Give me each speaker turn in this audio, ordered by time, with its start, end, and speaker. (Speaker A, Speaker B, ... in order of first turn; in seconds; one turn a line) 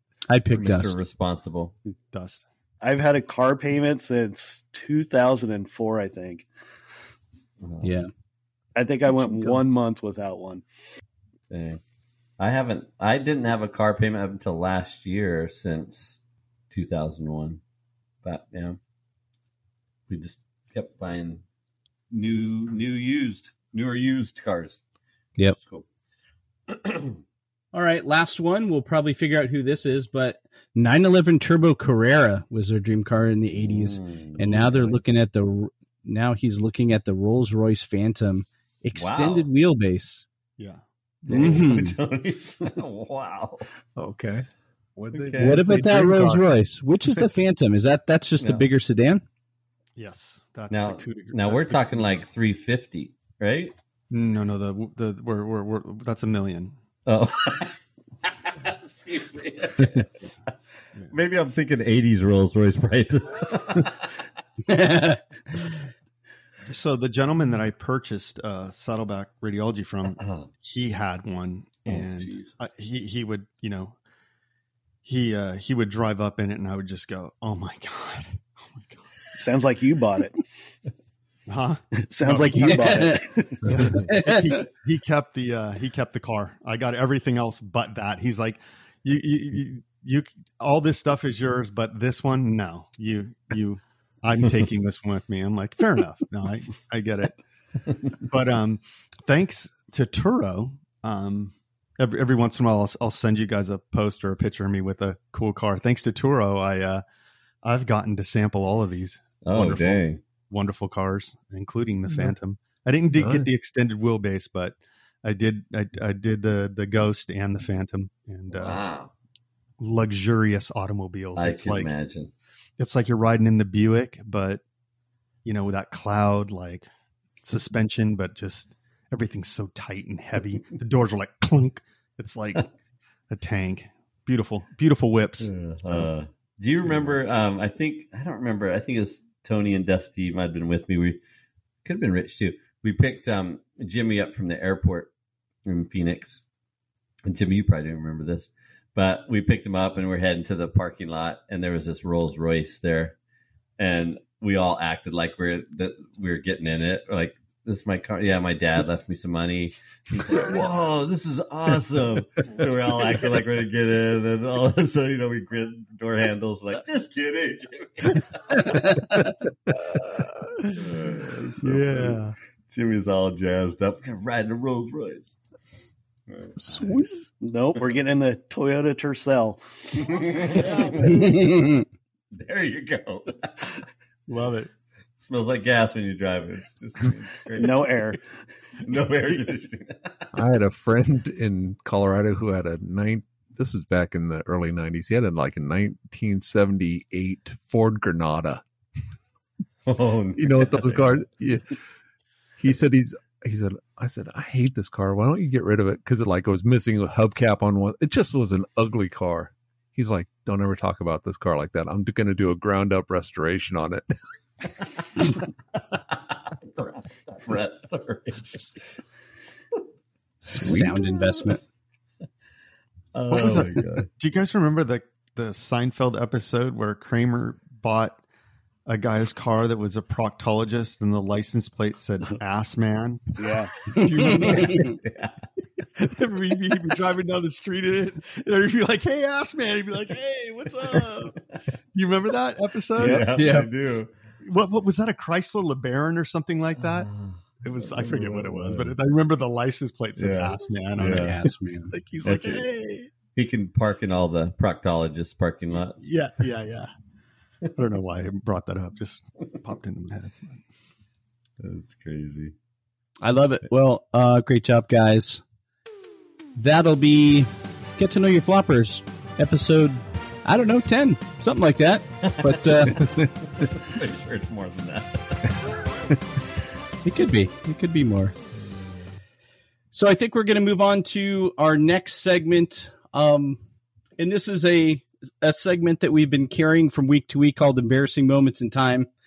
Speaker A: 0.3-1.0
Speaker B: 0.6-1.8
Speaker C: 2.1-2.5
Speaker D: 2.8-6.5
Speaker B: 7.6-7.9
Speaker A: 7.8-8.1
Speaker D: 8.8-10.6
Speaker E: 9.1-9.6
Speaker B: 11.5-11.8
Speaker B: 12.4-16.2
Speaker B: 16.7-17.6
Speaker B: 18.2-18.8
Speaker B: 20.1-21.4
Speaker B: 22.1-24.8
Speaker B: 25.5-25.9
Speaker B: 26.7-27.2
Speaker A: 27.7-40.2
Speaker B: 33.6-35.1
Speaker B: 39.0-39.5
Speaker B: 41.2-43.7
Speaker A: 41.3-42.0
Speaker E: 44.0-46.5
Speaker B: 45.1-45.7
Speaker A: 45.4-49.2
Speaker B: 48.4-48.6
Speaker C: 50.0-52.3
Speaker B: 50.7-53.7
Speaker C: 54.1-56.8
Speaker B: 57.1-60.1
Speaker B: 61.1-64.1
Speaker A: 64.7-65.6
Speaker C: 66.7-74.0
Speaker B: 70.2-70.5
Speaker B: 71.9-72.5
Speaker C: 75.0-79.0
Speaker D: 79.3-80.5
Speaker C: 81.5-97.4
Speaker D: 82.1-83.7
Speaker A: 82.7-83.3
Speaker A: 83.9-84.6
Speaker C: 98.2-107.0
Speaker C: 107.6-118.8
Speaker B: 109.5-110.2
Speaker E: 113.2-113.5
Speaker B: 118.5-119.1
Speaker C: 119.8-121.9
Speaker B: 121.4-122.3
Speaker C: 122.8-124.6
Speaker C: 125.5-126.9
Speaker C: 127.4-132.7
Speaker C: 133.3-136.1
Speaker B: 135.4-141.2
Speaker C: 136.8-137.2
Speaker B: 141.8-145.1
Speaker B: 145.7-146.4
Speaker B: 147.3-153.2
Speaker B: 153.8-168.8
Speaker A: 168.6-169.3
Speaker C: 170.6-172.4
Speaker B: 170.7-175.4
Speaker B: 176.3-176.8
Speaker A: 176.6-177.3
Speaker D: 177.4-180.2
Speaker B: 180.1-181.1
Speaker C: 180.5-181.5
Speaker A: 181.1-181.8
Speaker B: 182.3-183.9
Speaker C: 184.3-184.7
Speaker B: 185.2-187.9
Speaker D: 187.6-188.3
Speaker B: 188.8-190.3
Speaker E: 190.3-198.6
Speaker B: 199.9-201.2
Speaker E: 200.4-201.8
Speaker E: 202.6-214.0
Speaker B: 216.7-219.0
Speaker E: 220.5-221.0
Speaker A: 220.5-221.6
Speaker B: 223.1-224.1
Speaker C: 223.3-228.2
Speaker C: 228.9-235.0
Speaker D: 233.4-233.7
Speaker A: 234.0-234.9
Speaker B: 234.4-235.4
Speaker C: 235.9-241.4
Speaker C: 241.9-243.3
Speaker B: 243.0-244.1
Speaker D: 243.0-243.3
Speaker A: 243.4-243.7
Speaker C: 244.4-247.1
Speaker B: 246.8-248.9
Speaker C: 247.6-251.4
Speaker B: 250.2-251.4
Speaker A: 251.0-251.9
Speaker C: 251.9-253.1
Speaker B: 252.2-252.7
Speaker B: 253.4-256.0
Speaker C: 255.8-256.9
Speaker C: 257.8-260.6
Speaker B: 261.6-262.5
Speaker A: 263.2-265.4
Speaker A: 266.6-273.1
Speaker B: 272.2-273.0
Speaker E: 272.9-273.7
Speaker B: 273.6-275.4
Speaker A: 277.1-278.4
Speaker B: 278.6-278.9
Speaker A: 279.9-283.6
Speaker A: 284.2-289.1